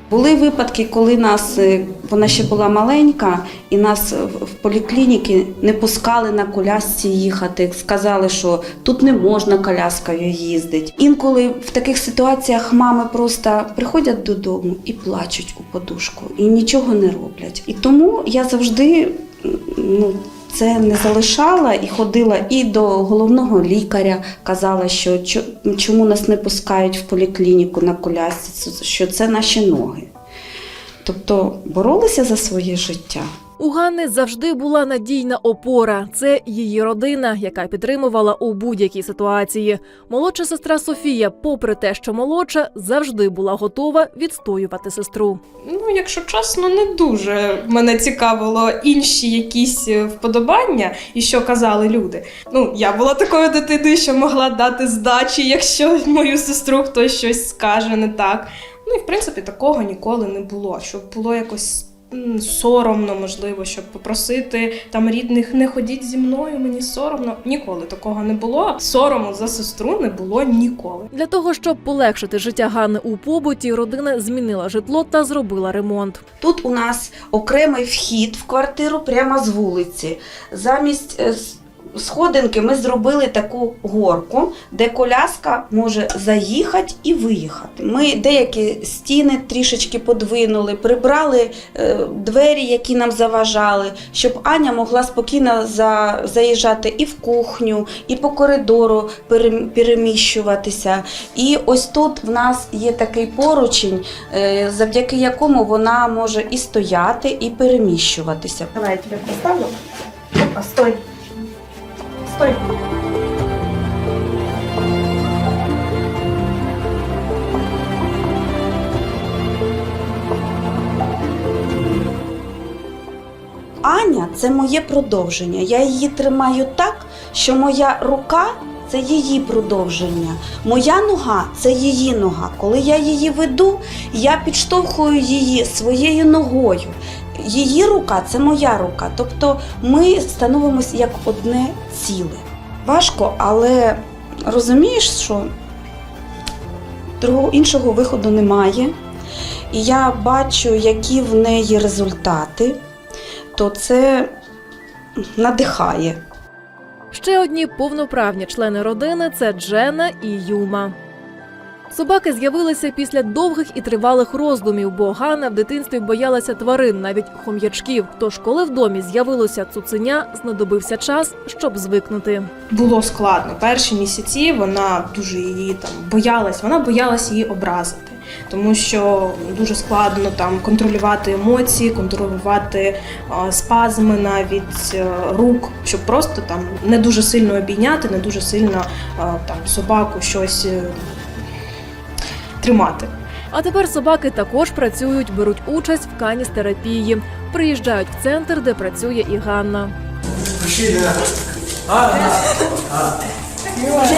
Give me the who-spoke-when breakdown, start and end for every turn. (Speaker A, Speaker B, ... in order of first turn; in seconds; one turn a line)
Speaker A: 0.1-30.1
Speaker A: 31.0-33.3
Speaker B: 33.6-45.4
Speaker C: 45.6-71.1
Speaker B: 71.1-76.2
Speaker A: 76.4-109.7
Speaker A: 110.3-111.0
Speaker A: 112.2-112.6
Speaker A: 123.8-145.5
Speaker A: 147.2-148.9
Speaker A: 149.7-152.8
Speaker A: 153.5-154.3
Speaker A: 155.3-156.2
Speaker B: 157.1-160.9
Speaker B: 161.9-172.5
Speaker C: 172.7-191.0
Speaker C: 192.6-193.1
Speaker B: 193.5-199.9